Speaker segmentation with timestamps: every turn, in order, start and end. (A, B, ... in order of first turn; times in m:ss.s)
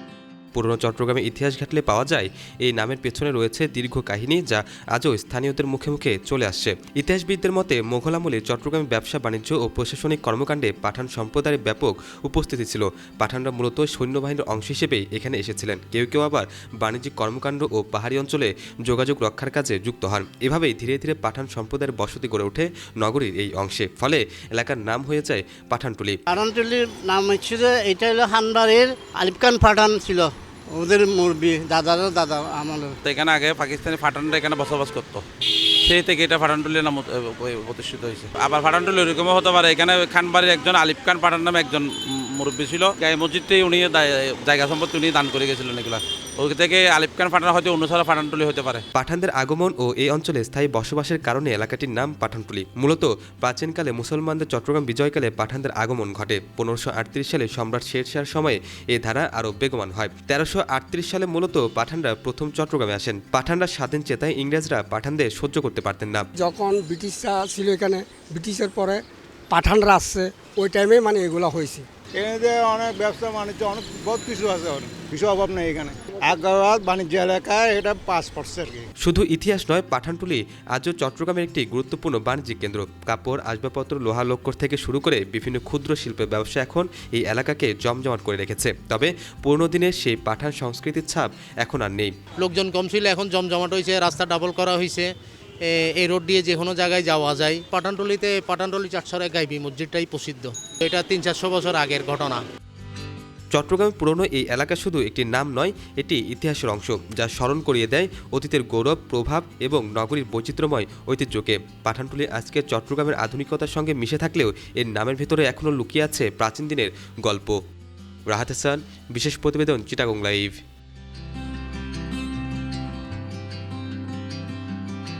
0:00.5-0:26.2 A
0:26.3-0:33.0 B
0:33.0-0:35.2 C
0:35.8-0:48.8 C
0:49.0-1:06.2 A
1:06.4-1:11.8 D
1:12.2-1:18.9 E
1:19.0-1:32.1 A
1:32.4-1:35.1 F
1:35.7-1:42.4 F
1:43.5-1:57.6 A
1:58.3-2:00.6 A